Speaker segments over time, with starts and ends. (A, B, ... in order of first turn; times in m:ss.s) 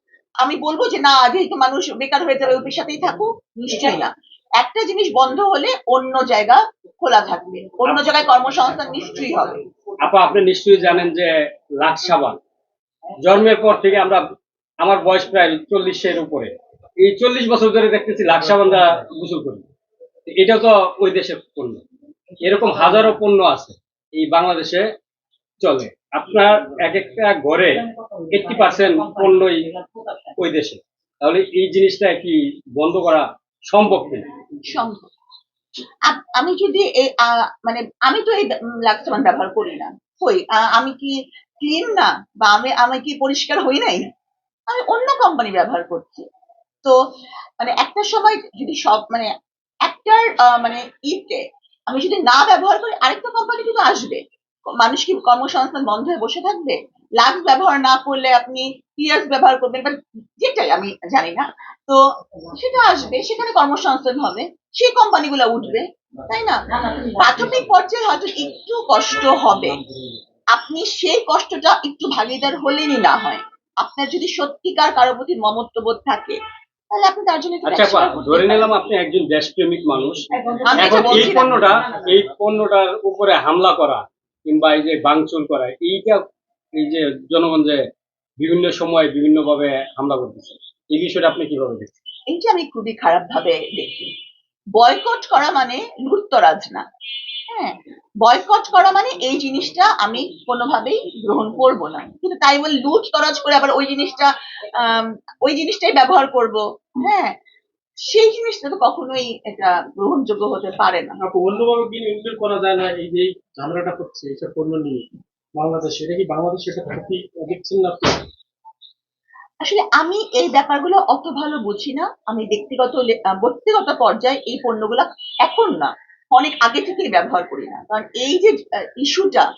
0:00.4-0:09.6 A
0:10.0-0:12.4 B
0:13.2-0:14.2 B
0:14.8-0:16.5 B
0:17.0-0:19.6 B
0:20.3-0:21.8 B
0:22.4-0:24.8 B
0:25.6-0:29.6 B
0:30.4-0:34.3 B
0:34.6-0:35.1 A
0:36.0-0:44.0 A
0:44.7-0:46.2 A
0:47.6-0:49.3 A
0:49.8-0:54.2 A
0:54.8-1:09.8 A
1:10.5-1:16.4 A
1:16.9-1:18.7 A
1:17.6-1:20.2 B
1:20.5-1:21.4 C
1:20.7-1:21.6 A
1:20.8-1:26.2 B
1:26.8-1:27.8 B
1:28.4-1:31.9 B
1:32.3-1:34.1 A
1:34.8-1:36.8 A
1:37.5-1:47.3 A
1:48.1-1:51.2 A
1:51.2-1:55.0 C
1:55.6-1:58.2 C
1:59.6-2:09.4 A